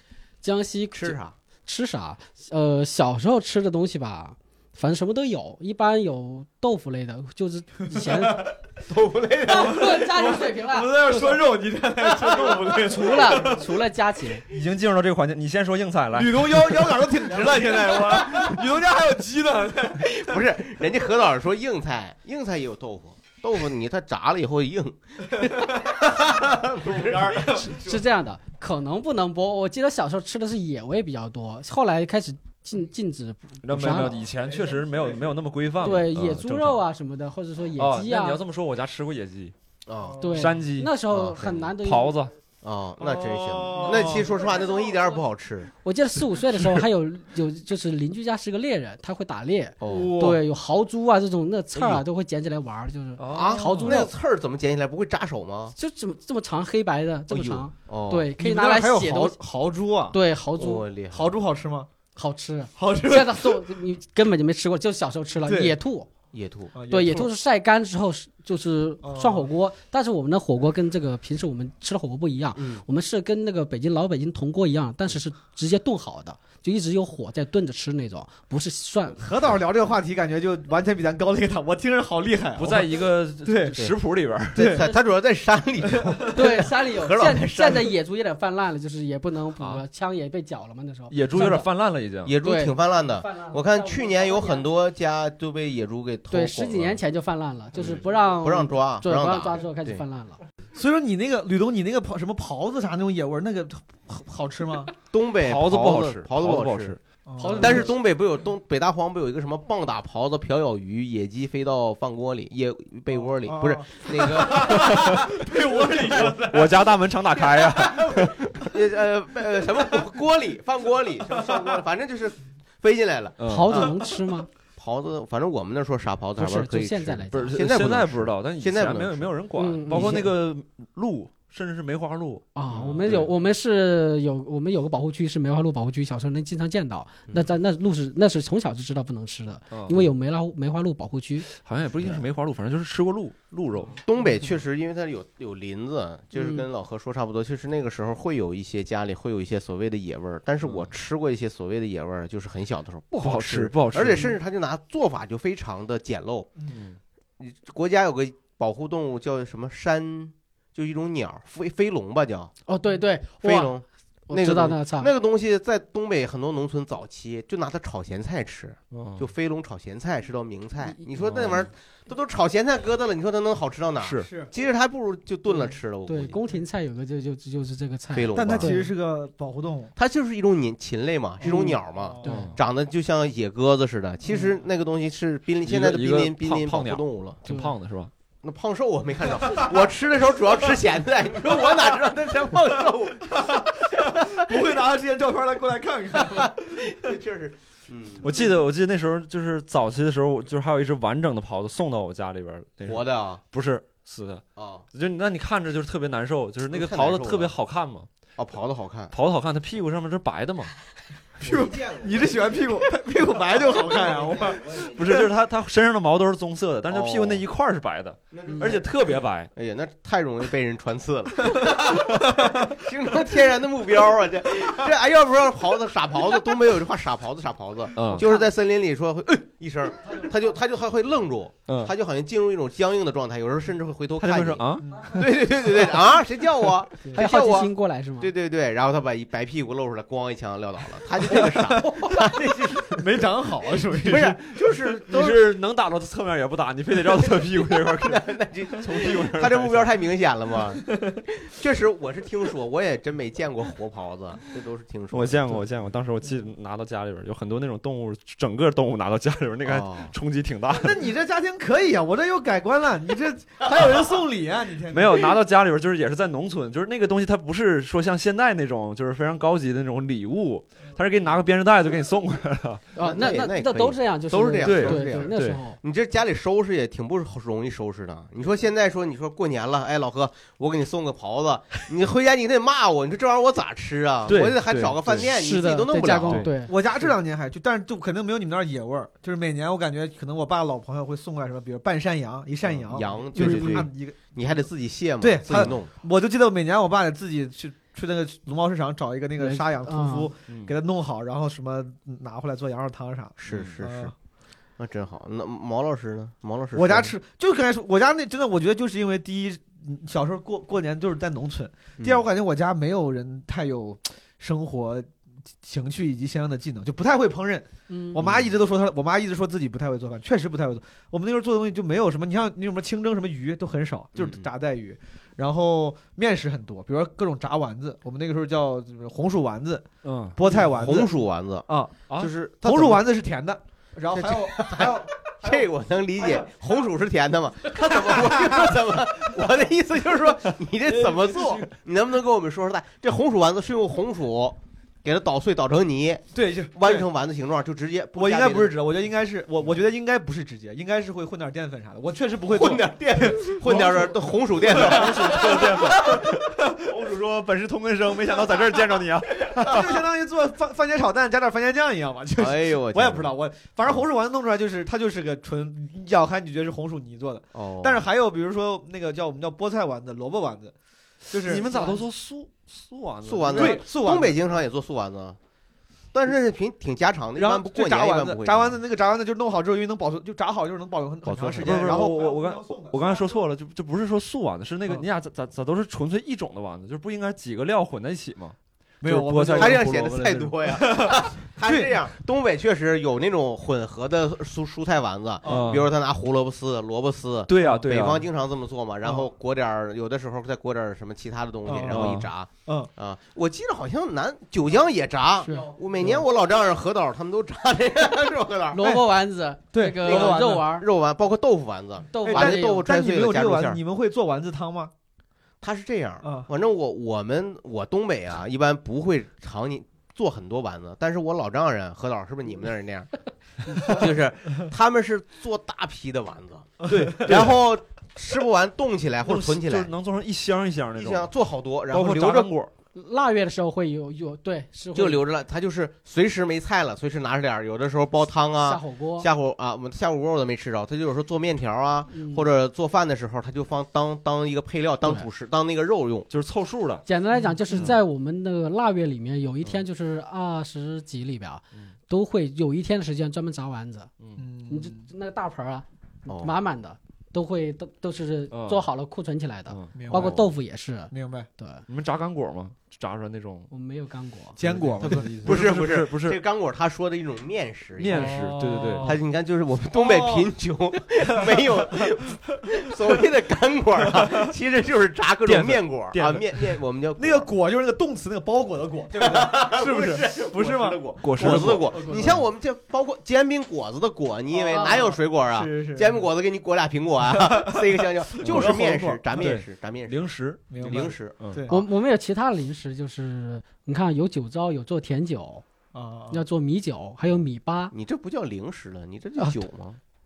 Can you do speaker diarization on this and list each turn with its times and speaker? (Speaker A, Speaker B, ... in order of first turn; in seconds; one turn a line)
Speaker A: 0.4-8.5
Speaker B: 0.9-1.3
Speaker C: 7.9-13.7
Speaker B: 8.9-9.8
Speaker A: 9.5-11.4
Speaker B: 12.1-12.7
Speaker A: 12.6-14.4
Speaker D: 14.5-17.1
Speaker C: 16.1-20.4
Speaker B: 17.6-18.6
Speaker B: 20.1-27.7
Speaker C: 25.4-25.9
Speaker C: 26.6-28.0
Speaker A: 27.5-34.1
Speaker D: 33.6-36.8
Speaker C: 34.4-35.4
Speaker A: 35.8-38.4
Speaker D: 37.8-39.5
Speaker B: 39.9-40.2
Speaker A: 40.2-42.2
Speaker D: 40.3-41.0
Speaker B: 41.1-41.7
Speaker D: 41.5-42.3
Speaker B: 42.6-45.7
Speaker C: 43.0-44.4
Speaker A: 45.8-54.1
Speaker D: 46.5-46.8
Speaker B: 49.8-50.1
Speaker C: 49.9-50.4
Speaker D: 53.2-53.9
Speaker B: 53.3-55.7
Speaker A: 55.8-59.4
Speaker B: 57.3-58.3
Speaker C: 58.4-60.2
Speaker A: 60.1-60.9
Speaker B: 60.5-61.4
Speaker C: 61.1-61.9
Speaker A: 62.1-66.1
Speaker C: 62.8-63.6
Speaker C: 65.4-65.8
Speaker B: 66.3-66.7
Speaker C: 66.7-67.3
Speaker A: 66.9-79.2
Speaker C: 69.0-69.5
Speaker B: 72.5-72.8
Speaker C: 79.2-83.8
Speaker D: 82.5-84.8
Speaker C: 84.5-84.9
Speaker B: 84.5-87.9
Speaker C: 85.9-86.2
Speaker A: 86.3-91.7
Speaker D: 89.6-89.8
Speaker D: 91.1-92.3
Speaker B: 92.2-97.0
Speaker A: 92.4-94.7
Speaker A: 96.3-100.4
Speaker B: 97.7-100.0
Speaker C: 100.7-104.9
Speaker B: 105.1-107.0
Speaker D: 105.4-107.0
Speaker C: 107.3-107.9
Speaker A: 107.4-107.9
Speaker B: 107.6-116.3
Speaker C: 113.4-116.9
Speaker D: 114.9-115.2
Speaker D: 116.1-118.6
Speaker B: 117.3-124.0
Speaker C: 121.3-121.7
Speaker D: 123.4-123.8
Speaker A: 123.5-124.5
Speaker B: 124.8-129.3
Speaker A: 126.4-127.5
Speaker D: 127.3-133.3
Speaker A: 129.6-130.2
Speaker B: 129.9-130.3
Speaker A: 132.5-141.5
Speaker B: 132.7-133.2
Speaker D: 139.7-140.1
Speaker D: 141.5-143.9
Speaker B: 143.9-156.5
Speaker A: 146.3-146.6
Speaker D: 153.2-154.3
Speaker B: 157.4-162.5
Speaker A: 162.7-163.8
Speaker B: 163.4-176.4
Speaker A: 164.3-165.1
Speaker D: 168.9-169.3
Speaker D: 171.2-171.7
Speaker D: 174.0-174.3
Speaker C: 174.2-174.5
Speaker A: 175.5-178.9
Speaker B: 178.1-178.8
Speaker C: 178.3-179.9
Speaker B: 179.9-187.4
Speaker C: 181.4-182.3
Speaker A: 181.4-182.5
Speaker D: 182.2-182.6
Speaker D: 185.6-188.1
Speaker B: 188.4-194.6
Speaker C: 193.3-197.1
Speaker B: 196.2-198.3
Speaker D: 198.2-208.1
Speaker B: 202.8-203.4
Speaker B: 204.6-204.8
Speaker B: 206.7-207.5
Speaker B: 208.4-209.1
Speaker D: 209.1-210.7
Speaker C: 211.4-215.3
Speaker B: 211.4-212.3
Speaker D: 214.7-219.5
Speaker B: 216.9-217.4
Speaker B: 218.3-218.9
Speaker B: 219.5-243.2
Speaker C: 222.4-222.7
Speaker D: 227.9-228.2
Speaker D: 231.7-231.9
Speaker D: 234.2-235.2
Speaker C: 234.8-235.2
Speaker A: 237.1-238.3
Speaker C: 241.2-242.2
Speaker C: 242.8-244.4
Speaker B: 244.0-245.5
Speaker D: 245.1-249.9
Speaker B: 247.3-255.6
Speaker D: 255.1-261.1
Speaker B: 259.6-260.1
Speaker C: 260.7-265.3
Speaker D: 264.9-272.9
Speaker A: 272.9-275.8
Speaker B: 273.0-286.5
Speaker D: 274.6-275.6
Speaker D: 284.2-285.3
Speaker A: 285.2-286.7
Speaker C: 286.6-294.3
Speaker B: 292.6-295.9
Speaker A: 293.4-293.7
Speaker C: 295.2-304.1
Speaker D: 295.5-295.7
Speaker A: 299.4-300.3
Speaker D: 300.5-300.7
Speaker B: 303.4-304.1
Speaker D: 303.5-303.7
Speaker B: 304.8-307.1
Speaker C: 306.7-315.1
Speaker B: 312.0-312.2
Speaker C: 315.6-331.1
Speaker A: 317.9-318.2
Speaker B: 318.2-318.5
Speaker B: 324.1-324.5
Speaker D: 330.0-330.7
Speaker B: 330.5-333.0
Speaker C: 331.7-331.9
Speaker C: 332.6-335.7
Speaker B: 334.1-348.8
Speaker C: 337.9-338.7
Speaker D: 341.1-341.6
Speaker C: 346.3-347.1
Speaker C: 348.1-356.8
Speaker B: 352.4-356.1
Speaker D: 354.6-360.0
Speaker C: 359.6-370.7
Speaker B: 362.4-363.3
Speaker B: 367.5-368.0
Speaker C: 371.3-372.0
Speaker D: 371.4-373.8
Speaker B: 373.2-375.4
Speaker C: 373.5-374.4
Speaker B: 376.1-378.8
Speaker C: 377.4-383.4
Speaker B: 381.2-382.1
Speaker D: 381.2-390.5
Speaker C: 389.0-390.1
Speaker B: 389.5-408.8
Speaker C: 390.6-391.9
Speaker C: 395.4-395.7
Speaker D: 395.4-395.9
Speaker D: 397.5-398.2
Speaker C: 397.6-397.9
Speaker C: 401.6-402.1
Speaker D: 401.9-402.3
Speaker C: 405.4-406.2
Speaker A: 405.4-405.7
Speaker A: 408.7-410.9
Speaker C: 408.8-409.1
Speaker C: 409.7-410.6
Speaker B: 410.0-413.8
Speaker A: 412.1-412.8
Speaker C: 412.2-414.9
Speaker B: 415.6-423.1
Speaker C: 416.2-416.5
Speaker B: 423.8-429.9
Speaker C: 426.8-427.4
Speaker D: 426.9-427.6
Speaker D: 429.2-431.3
Speaker B: 430.9-432.5
Speaker D: 431.9-432.7
Speaker A: 432.9-435.2
Speaker B: 434.9-446.3
Speaker A: 438.6-439.3
Speaker A: 442.1-442.5
Speaker D: 446.3-447.0
Speaker A: 447.1-454.1
Speaker C: 454.4-455.1
Speaker A: 454.7-461.8
Speaker B: 456.3-456.5
Speaker D: 458.5-458.9
Speaker D: 459.7-460.4
Speaker C: 459.9-460.4
Speaker C: 461.1-461.5
Speaker D: 461.9-463.7
Speaker A: 463.7-464.6
Speaker C: 464.6-465.4
Speaker D: 464.6-466.4
Speaker B: 465.0-468.4
Speaker D: 468.0-469.2
Speaker C: 468.1-469.2
Speaker B: 469.0-477.5
Speaker C: 469.9-470.5
Speaker C: 471.3-472.1
Speaker C: 474.0-474.5
Speaker D: 475.4-476.7
Speaker C: 477.2-482.4
Speaker B: 479.1-491.4
Speaker D: 481.2-482.4
Speaker C: 484.5-486.2
Speaker A: 484.7-485.0
Speaker C: 487.3-489.4
Speaker D: 488.4-488.7
Speaker D: 489.4-491.6
Speaker C: 490.7-491.8
Speaker A: 491.7-495.6
Speaker C: 495.9-496.4
Speaker A: 496.3-497.9
Speaker B: 497.9-500.0